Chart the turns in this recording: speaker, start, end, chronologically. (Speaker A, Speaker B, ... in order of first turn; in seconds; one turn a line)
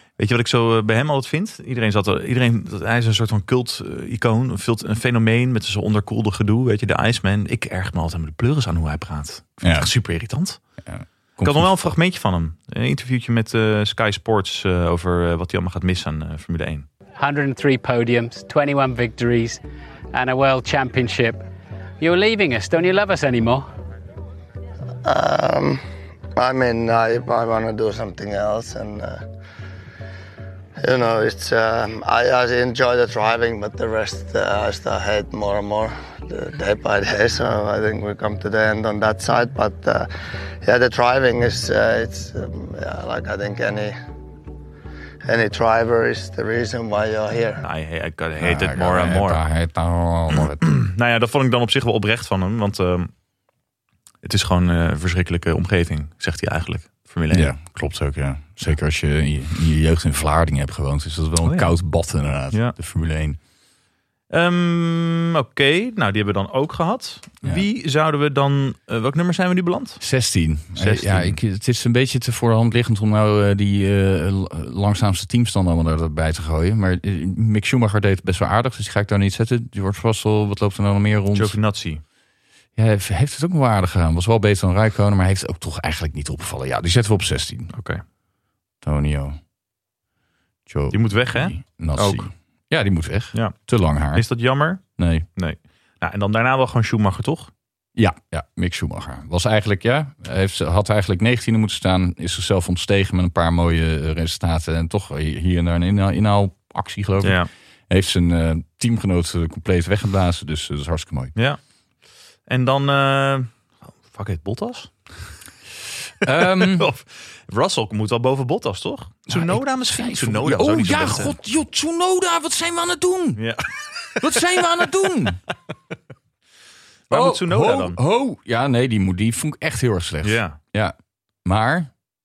Speaker A: 0.2-10.6
Speaker B: 9.6-9.9
Speaker B: 10.8-11.7
Speaker A: 11.4-16.9
Speaker C: 17.2-19.6
Speaker C: 20.1-21.4
Speaker C: 22.0-23.6
Speaker D: 25.0-25.8
Speaker D: 26.4-29.2
Speaker D: 30.8-40.1
Speaker D: 40.6-44.0
Speaker D: 45.3-47.6
Speaker A: 47.6-49.4
Speaker B: 48.4-50.6
Speaker A: 50.3-53.1
Speaker A: 54.2-57.5
Speaker B: 57.3-63.4
Speaker A: 61.4-61.8
Speaker A: 64.3-70.0
Speaker B: 70.0-81.5
Speaker A: 70.8-71.4
Speaker A: 81.3-82.0
Speaker B: 82.8-87.7
Speaker A: 87.7-88.0
Speaker B: 88.8-89.4
Speaker B: 90.7-94.2
Speaker A: 90.9-92.3
Speaker A: 94.1-94.8
Speaker B: 95.0-95.3
Speaker A: 95.4-97.5
Speaker B: 98.0-111.3
Speaker A: 107.2-107.5
Speaker A: 112.5-113.5
Speaker A: 114.1-115.0
Speaker A: 116.2-121.4
Speaker B: 116.2-116.9
Speaker B: 119.3-123.4
Speaker A: 123.4-124.7
Speaker B: 124.2-125.4
Speaker A: 127.1-128.0
Speaker B: 127.1-131.9
Speaker A: 130.2-130.6